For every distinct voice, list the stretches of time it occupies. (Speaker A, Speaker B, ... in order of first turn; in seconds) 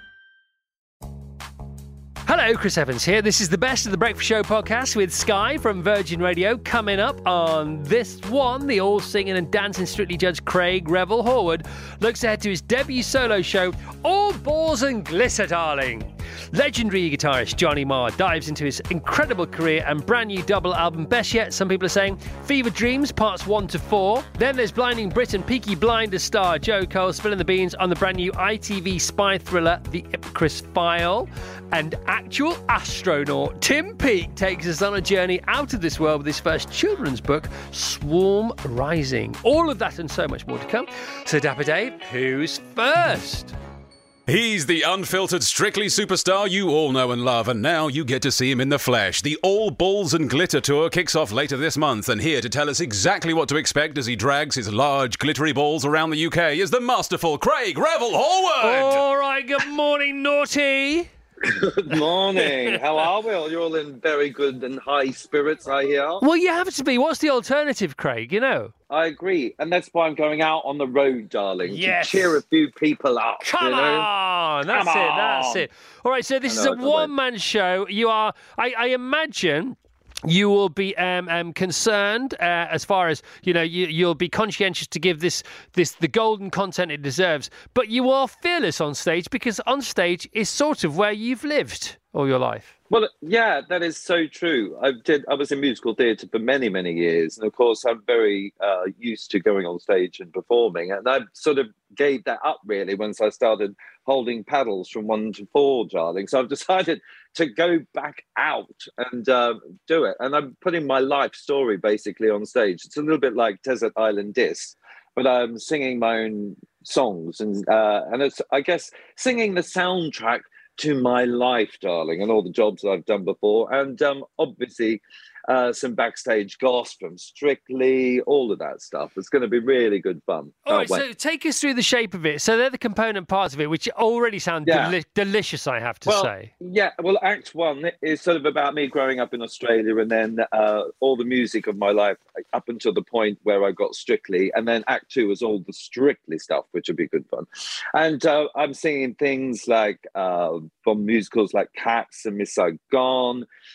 Speaker A: 2.3-43.6, 58.6-61.1, 62.4-62.8, 66.2-68.7, 71.7-72.4, 73.4-92.7, 130.7-136.5
Speaker B: 44.3-59.1
Speaker C: 61.4-66.2, 68.9-74.1, 74.7-75.7, 76.5-77.1, 92.9-131.0, 134.7-134.9, 136.1-153.5